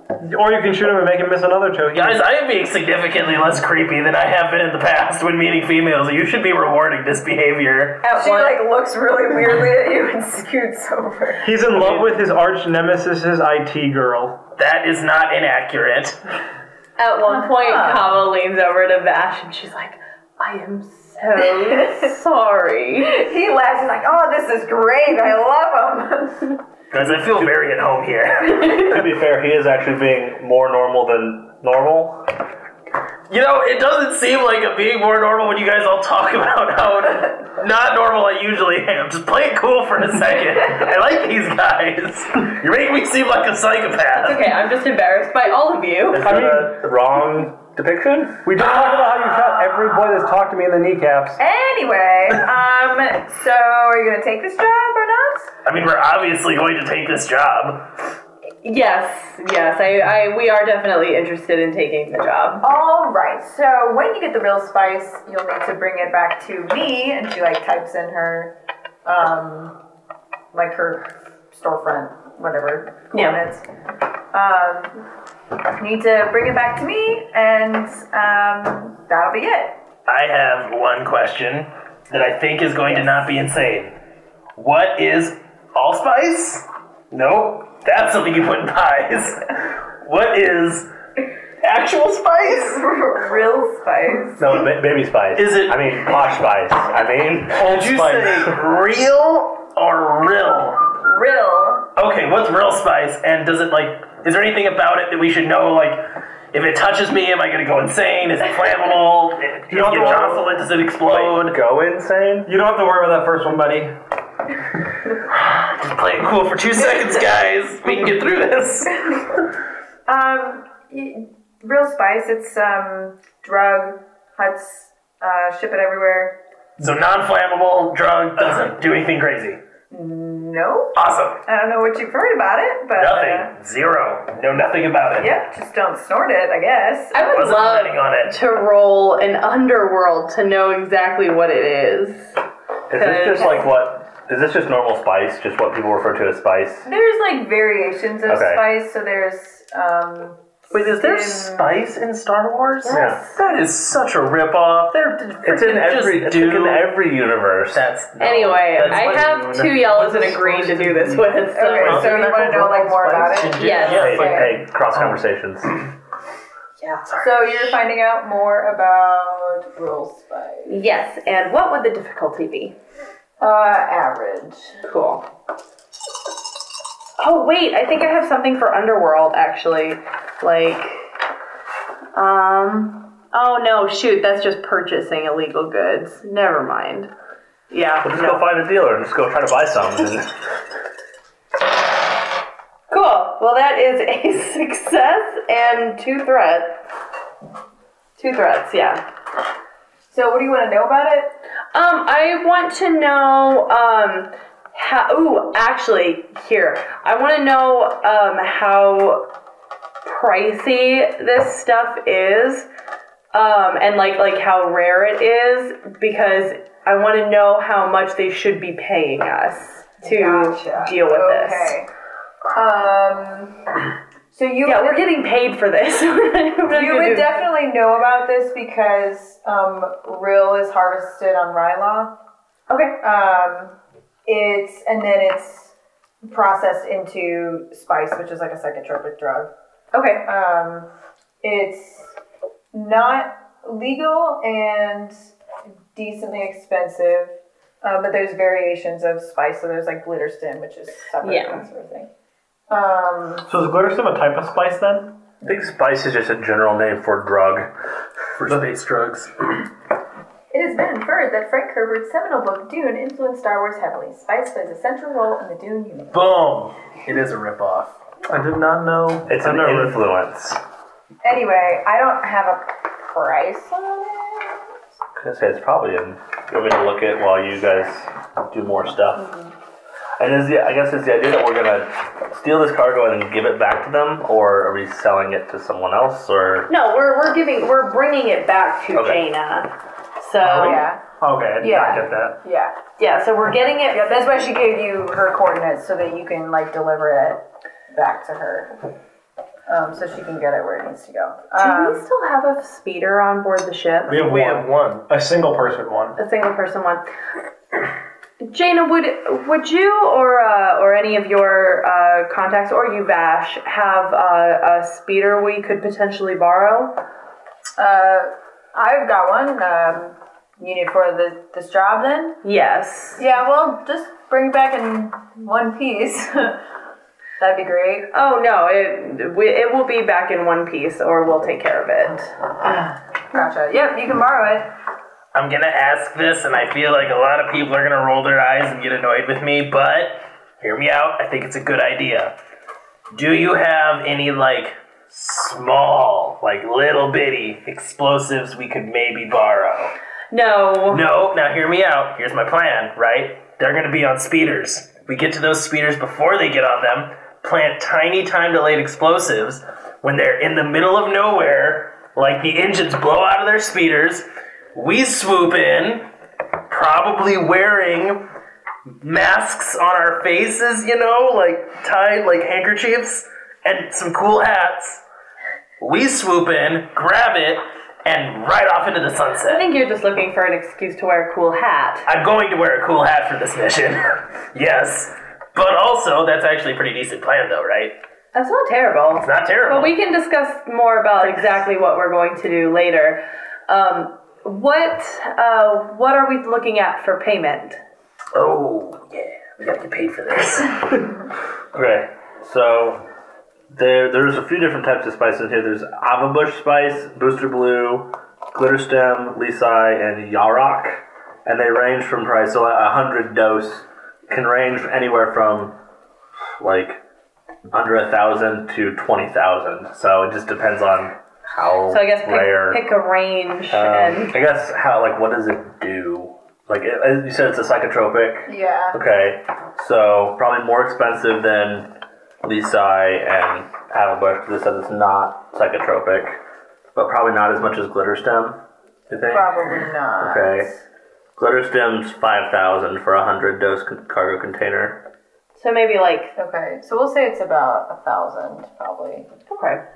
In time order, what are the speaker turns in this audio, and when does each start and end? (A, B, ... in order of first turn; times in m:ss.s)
0:00.2-0:02.2 A
0:01.9-0:08.0 B
0:08.0-0:11.5 C
0:08.2-0:08.6 D
0:11.4-0:14.4 A
0:11.8-0:12.0 B
0:14.6-0:16.2 B
0:17.0-0:23.2 D
0:17.4-0:18.1 C
0:23.1-0:26.6 C
0:26.9-0:28.9 B
0:27.0-0:27.5 E
0:28.5-0:32.3 E
0:33.3-0:44.5 B
0:44.2-0:46.3 D
0:46.1-0:48.5 E
0:46.2-0:46.8 A
0:48.4-0:51.4 A
0:51.4-0:55.5 C
0:55.6-0:57.9 B
0:58.6-1:02.6 D
1:02.6-1:09.8 C
1:10.5-1:13.6 C
1:13.1-1:13.4 D
1:14.3-1:15.0 C
1:15.8-1:19.8 C
1:20.1-1:23.9 B
1:24.6-1:30.9 B
1:31.6-1:32.8 B
1:32.4-1:34.4 C
1:34.4-1:38.6 E
1:35.4-1:35.9 B
1:37.5-1:40.8 B
1:41.0-1:41.9 C
1:42.0-1:51.6 B
1:49.7-1:50.6 A
1:51.0-1:52.5 E
1:52.4-1:53.9 A
1:55.3-1:59.2 B
2:00.1-2:06.4 C
2:06.8-2:09.6 B
2:09.9-2:13.5 C
2:10.9-2:11.4 B
2:12.9-2:15.4 B
2:15.2-2:17.2 C
2:17.1-2:22.3 D
2:17.2-2:18.3 B
2:22.9-2:26.9 E
2:22.9-2:23.6 D
2:26.8-2:31.8 C
2:28.3-2:28.7 E
2:30.7-2:37.0 B
2:32.8-2:33.4 D
2:32.9-2:33.2 E
2:35.4-2:37.8 E
2:37.7-2:39.3 B
2:38.2-2:42.1 D
2:38.8-2:44.0 A
2:41.5-2:44.6 C
2:41.8-2:45.2 B
2:43.6-2:44.1 D
2:43.9-2:45.8 E
2:47.1-2:47.8 B
2:47.2-2:50.8 C
2:50.7-2:52.8 D
2:53.4-2:54.8 C
2:54.8-2:55.2 D
2:57.2-3:01.1 D
3:02.1-3:07.1 D
3:07.7-3:08.4 D
3:08.0-3:10.4 E
3:12.9-3:16.8 D
3:18.2-3:19.0 D
3:20.1-3:21.3 C
3:21.7-3:29.3 D
3:30.0-3:32.7 D
3:33.3-3:41.7 D
3:40.0-3:41.9 C
3:42.5-3:43.7 C
3:44.3-3:45.0 C
3:44.6-3:47.4 D
3:46.7-3:52.2 C
3:52.7-3:53.0 D
3:53.0-3:59.5 C
3:59.9-4:00.3 D
4:00.2-4:00.9 C
4:01.4-4:02.1 C
4:02.7-4:05.2 C
4:05.9-4:12.1 C
4:11.2-4:11.6 D
4:12.7-4:13.4 C
4:13.4-4:15.3 A
4:15.4-4:17.7 E
4:18.4-4:19.6 B
4:20.5-4:26.2 C
4:26.1-4:27.9 B
4:28.3-4:30.0 A
4:29.3-4:30.6 E
4:31.2-4:34.7 C
4:35.2-4:39.3 E
4:40.2-4:46.7 E
4:46.7-4:50.8 D
4:48.9-4:49.2 E
4:50.4-4:52.4 A
4:50.5-4:51.0 C
4:51.6-4:52.7 C
4:53.0-4:54.1 D
4:53.9-4:58.7 C
4:59.7-5:02.0 C
5:01.6-5:04.2 D
5:04.1-5:06.2 A
5:04.1-5:05.0 B
5:06.2-5:07.0 D
5:08.4-5:17.0 D
5:17.8-5:22.4 C
5:22.4-5:23.2 D
5:23.2-5:26.6 C
5:27.4-5:28.1 C
5:28.1-5:32.9 D
5:33.3-5:34.7 C
5:35.3-5:42.3 B
5:43.1-5:49.9 B
5:50.3-5:51.0 D
5:50.9-6:06.0 B
6:06.7-6:08.2 B
6:09.0-6:15.0 B
6:15.8-6:19.7 B
6:19.4-6:22.1 D
6:22.0-6:28.0 B
6:28.3-6:37.8 D
6:29.2-6:29.9 B
6:38.3-6:41.1 B
6:41.7-6:43.0 E
6:43.7-6:55.8 E
6:56.6-6:57.0 E
6:57.7-7:02.8 E
7:01.9-7:04.4 D
7:03.7-7:16.4 E
7:08.4-7:09.0 C
7:16.9-7:19.5 E
7:19.3-7:20.8 C
7:20.2-7:20.7 E
7:21.4-7:25.0 E
7:25.6-7:26.4 D
7:26.4-7:29.3 C
7:29.5-7:29.8 D